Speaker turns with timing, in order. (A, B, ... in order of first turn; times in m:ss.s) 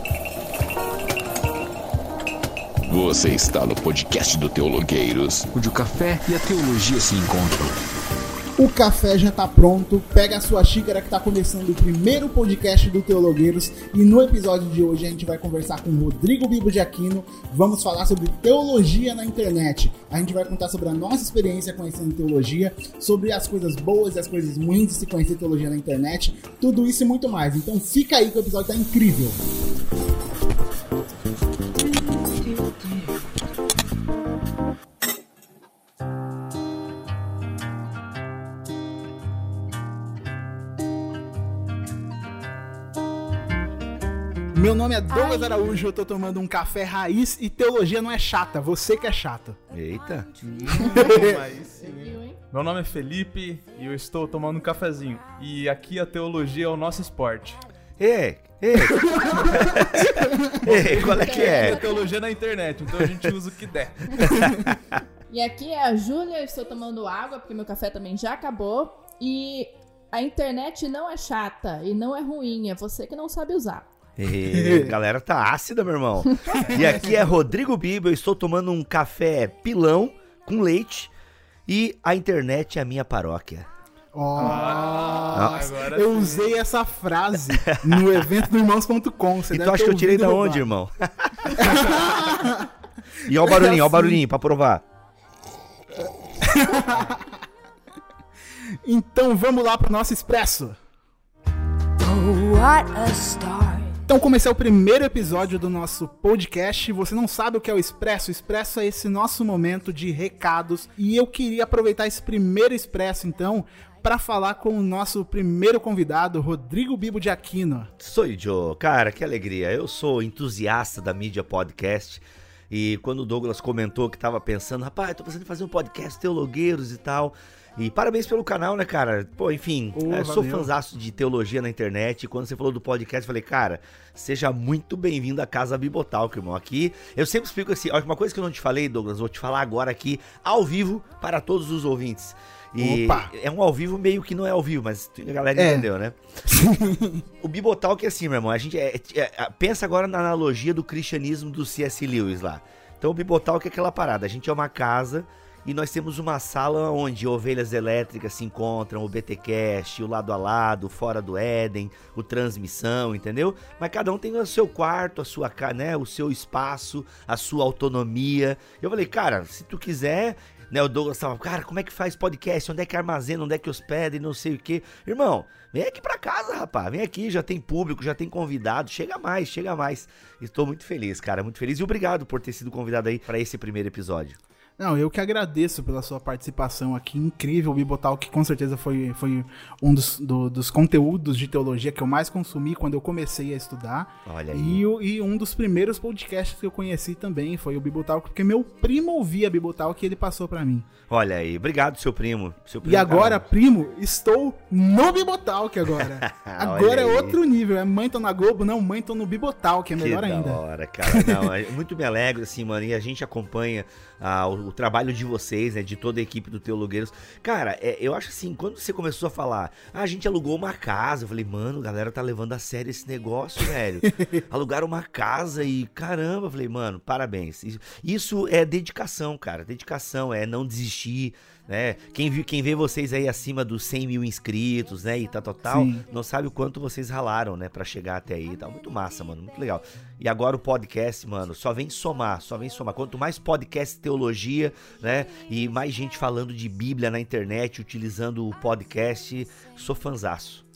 0:02.9-0:07.7 A
0:08.6-0:29.4 B
0:44.5-0:49.6 B
0:45.1-0:45.7 C
0:49.7-0:50.3 D
0:50.4-0:57.6 E
0:50.7-0:51.5 B
0:50.7-0:52.4 C
0:58.0-1:01.8 D
0:59.0-0:59.5 B
1:00.2-1:02.1 C
1:00.7-1:04.4 E
1:04.2-1:05.0 D
1:05.3-1:13.9 C
1:14.2-1:21.1 D
1:14.4-1:15.0 B
1:16.5-1:17.2 B
1:21.7-1:23.6 D
1:24.1-1:30.7 B
1:24.4-1:26.5 E
1:25.3-1:25.6 D
1:27.6-1:28.3 D
1:29.5-1:31.9 D
1:31.5-1:32.7 B
1:33.2-1:34.8 D
1:33.3-1:34.2 B
1:36.2-1:37.4 B
1:38.8-1:40.8 B
1:42.0-1:44.0 F
1:44.1-1:57.9 B
1:58.0-2:26.2 D
2:09.9-2:10.7 B
2:22.8-2:23.3 B
2:25.6-2:25.9 B
2:26.5-2:27.2 B
2:27.4-3:04.4 D
3:04.8-3:20.9 B
3:14.2-3:14.8 D
3:21.1-3:23.4 D
3:22.8-3:31.5 B
3:26.0-3:27.4 D
3:30.0-4:10.6 D
3:55.7-3:56.0 B